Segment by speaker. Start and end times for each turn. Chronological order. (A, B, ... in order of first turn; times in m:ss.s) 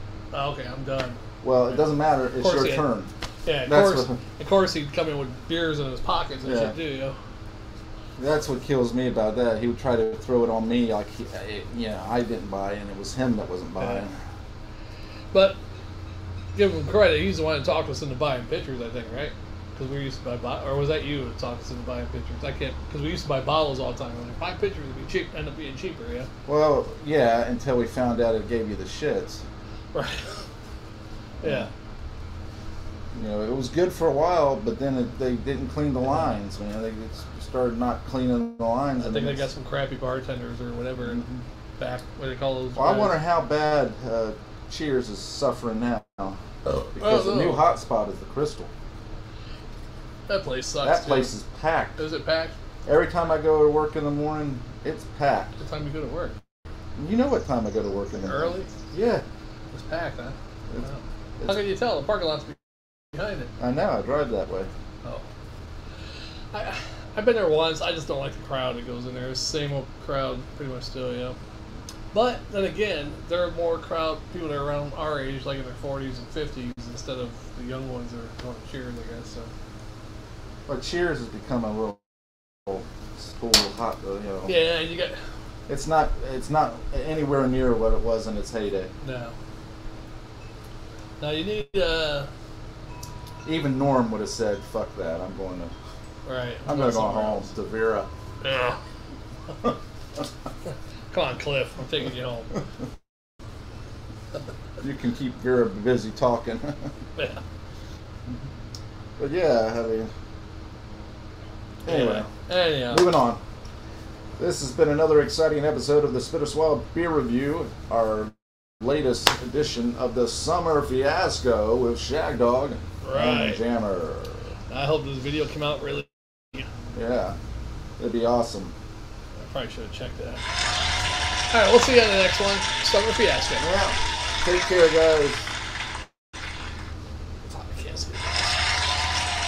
0:00.3-0:01.2 A
0:01.4-0:03.1 B
0:02.4-0:02.9 A
0:03.4-0:07.2 A
0:03.6-0:04.2 B
0:06.4-0:06.8 B
0:08.2-0:14.2 B
0:13.8-0:14.0 A
0:15.3-0:15.6 A
0:16.6-0:26.3 A
0:26.5-0:29.4 B
0:29.9-0:30.4 A
0:31.4-0:31.7 B
0:31.4-0:31.7 A
0:33.1-0:39.5 B
0:36.0-0:36.4 A
0:39.0-0:41.2 A
0:41.0-0:41.4 B
0:41.8-0:43.2 A
0:42.8-0:46.4 B
0:46.7-0:47.7 A
0:47.0-0:48.7 B
0:50.3-0:51.3 A
0:50.8-0:52.0 B
0:52.0-0:52.5 A
0:52.8-0:55.5 B
0:55.6-0:56.4 A
0:57.0-0:59.2 B
0:58.1-0:58.7 A
0:59.7-1:02.6 A
1:03.1-1:03.5 A
1:03.6-1:04.7 B
1:06.5-1:11.4 A
1:12.1-1:19.5 A
1:20.7-1:24.6 B
1:24.5-1:25.2 A
1:25.7-1:28.9 B
1:29.0-1:29.3 A
1:31.2-1:32.3 A
1:33.4-1:35.7 B
1:36.2-1:37.5 A
1:36.6-1:38.1 B
1:38.4-1:38.8 A
1:41.1-1:42.5 A
1:44.8-1:46.9 B
1:47.2-1:47.4 A
1:49.2-1:50.1 B
1:51.8-1:52.3 B
1:51.9-1:53.1 A
1:52.8-1:53.4 B
1:54.4-2:04.5 B
2:03.0-2:03.6 A
2:04.7-2:06.6 A
2:06.9-2:07.4 B
2:08.0-2:08.7 B
2:09.5-2:10.4 A
2:11.5-2:13.7 A
2:13.6-2:15.5 B
2:17.5-2:18.5 A